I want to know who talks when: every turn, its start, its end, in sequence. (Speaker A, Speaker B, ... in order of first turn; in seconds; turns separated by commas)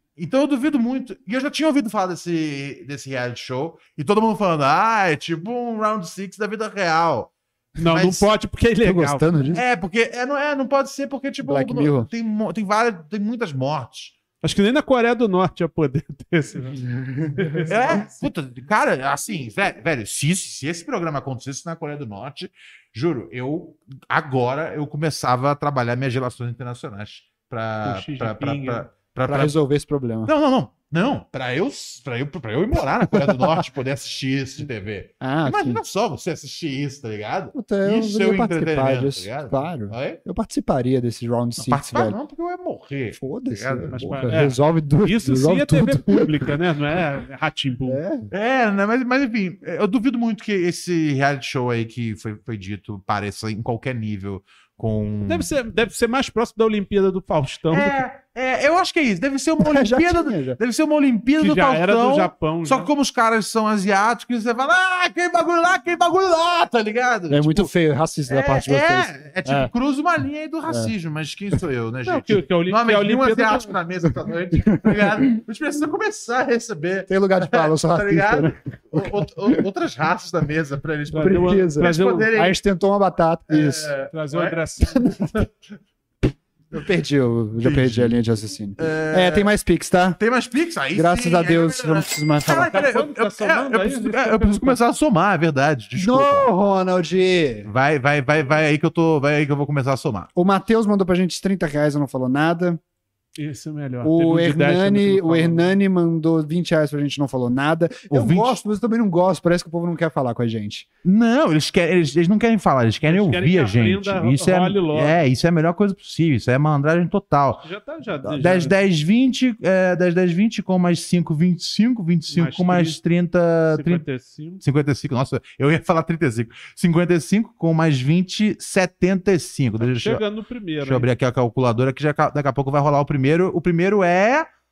Speaker A: 0.2-8.3, Speaker B: 7.8-9.3, Speaker C: 8.8-9.6, Speaker A: 9.5-14.1, Speaker C: 11.4-12.1, Speaker B: 14.4-18.2, Speaker C: 16.8-18.0, Speaker A: 17.7-29.6, Speaker B: 27.8-28.8, Speaker C: 29.3-30.3, Speaker A: 30.3-40.2, Speaker C: 33.1-33.5, Speaker C: 35.2-35.8, Speaker C: 37.5-42.2, Speaker A: 41.6-44.4, Speaker C: 43.1-46.4, Speaker B: 43.9-48.0, Speaker C: 47.9-48.3, Speaker A: 48.3-55.5, Speaker B: 55.3-58.0, Speaker A: 57.7-67.7, Speaker C: 59.6-60.6, Speaker B: 61.4-62.9, Speaker C: 67.3-69.7, Speaker A: 68.3-82.6, Speaker C: 70.7-70.9, Speaker B: 72.0-73.8, Speaker C: 74.7-75.3, Speaker C: 77.1-79.6, Speaker B: 81.1-82.3, Speaker C: 81.2-83.9, Speaker A: 83.5-84.6, Speaker B: 84.1-85.1, Speaker A: 85.2-85.5, Speaker C: 86.7-90.2, Speaker A: 87.6-88.2, Speaker A: 88.8-89.5, Speaker A: 90.2-96.5, Speaker C: 90.9-92.7, Speaker B: 92.6-94.8, Speaker C: 96.0-97.7, Speaker A: 97.6-100.3, Speaker C: 100.3-102.8, Speaker B: 103.4-105.8, Speaker C: 104.0-110.9, Speaker A: 108.1-108.6, Speaker A: 111.0-117.7, Speaker B: 113.0-115.2, Speaker B: 117.6-118.7, Speaker A: 118.2-124.0, Speaker B: 122.3-123.0, Speaker B: 123.7-124.6, Speaker A: 124.6-130.2, Speaker B: 129.8-131.1, Speaker A: 130.8-134.5